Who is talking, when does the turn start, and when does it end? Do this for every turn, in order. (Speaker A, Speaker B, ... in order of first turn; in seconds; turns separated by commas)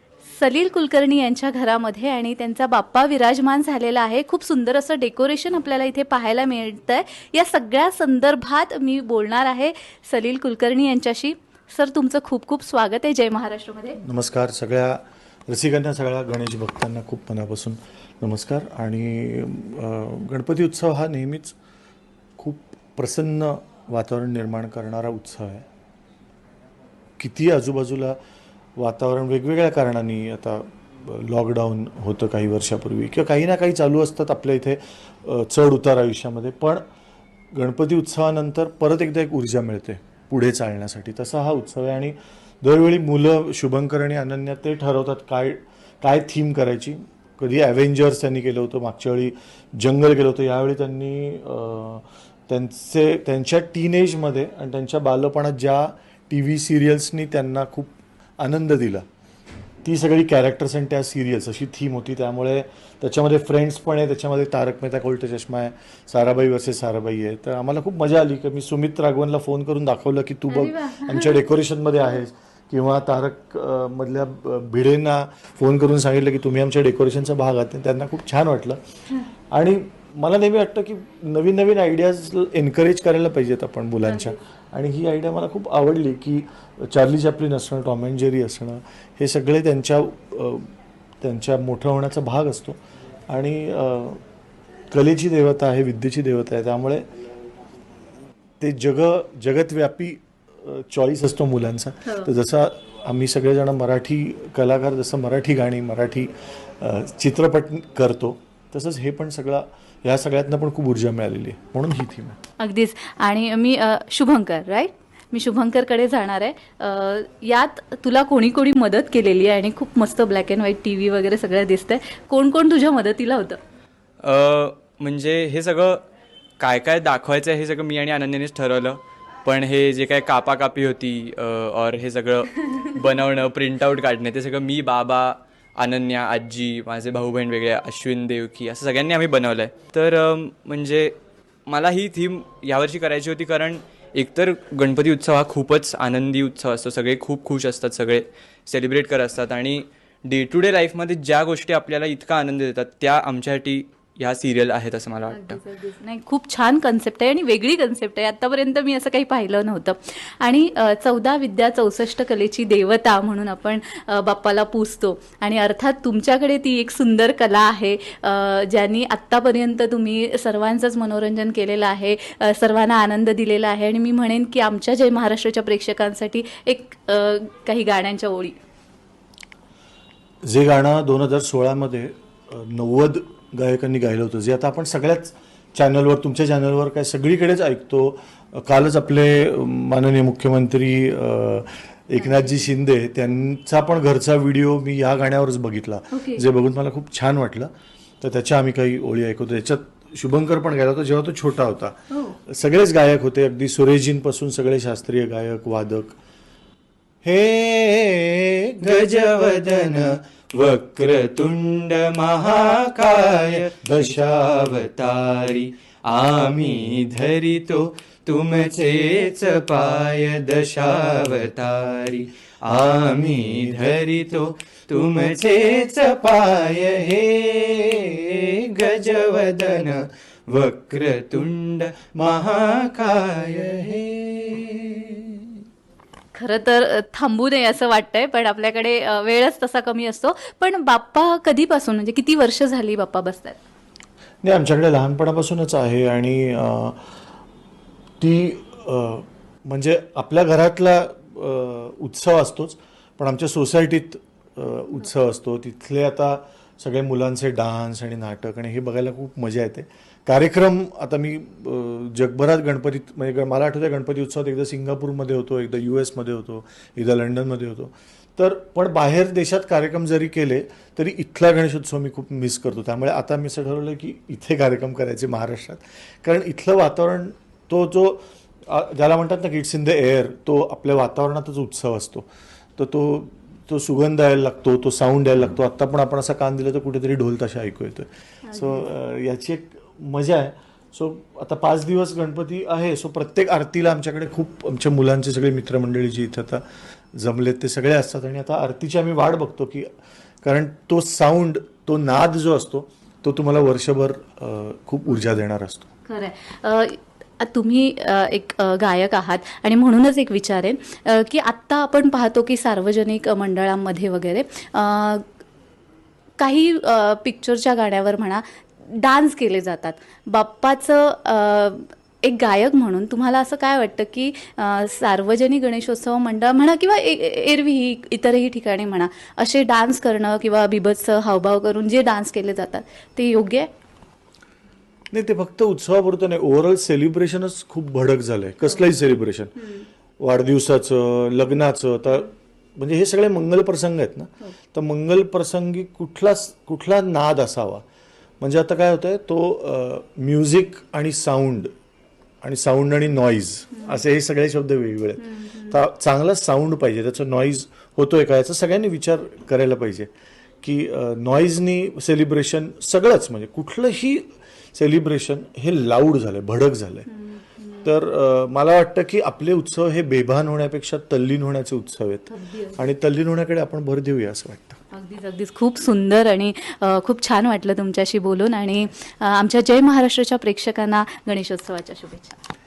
Speaker A: 0.3-14.0, Speaker B: 14.0-21.6, Speaker B: 22.4-25.7, Speaker B: 27.2-28.2, Speaker B: 28.8-36.8, Speaker B: 37.5-59.0, Speaker B: 59.8-78.8, Speaker A: 70.5-71.4, Speaker B: 79.5-90.7, Speaker A: 84.0-84.4, Speaker B: 91.2-94.2, Speaker B: 94.9-97.1, Speaker B: 98.6-112.4, Speaker A: 102.0-102.3, Speaker A: 112.6-123.6, Speaker C: 124.2-126.0, Speaker C: 126.6-141.2, Speaker C: 141.7-155.6, Speaker A: 155.3-178.6, Speaker B: 180.4-206.2, Speaker A: 192.2-192.7, Speaker A: 196.1-196.4, Speaker A: 202.1-202.4, Speaker C: 207.3-235.3, Speaker A: 236.3-243.6, Speaker B: 244.4-247.0, Speaker B: 248.2-299.9, Speaker A: 288.4-288.9, Speaker B: 300.4-305.9, Speaker A: 306.1-315.2, Speaker A: 316.4-333.7, Speaker B: 335.1-339.6, Speaker A: 339.6-339.9, Speaker B: 340.2-347.8, Speaker B: 348.4-351.7, Speaker B: 352.4-360.1, Speaker A: 355.2-355.8, Speaker B: 360.6-367.1, Speaker A: 367.1-367.9, Speaker B: 367.8-374.8, Speaker A: 372.3-372.8, Speaker A: 374.9-382.4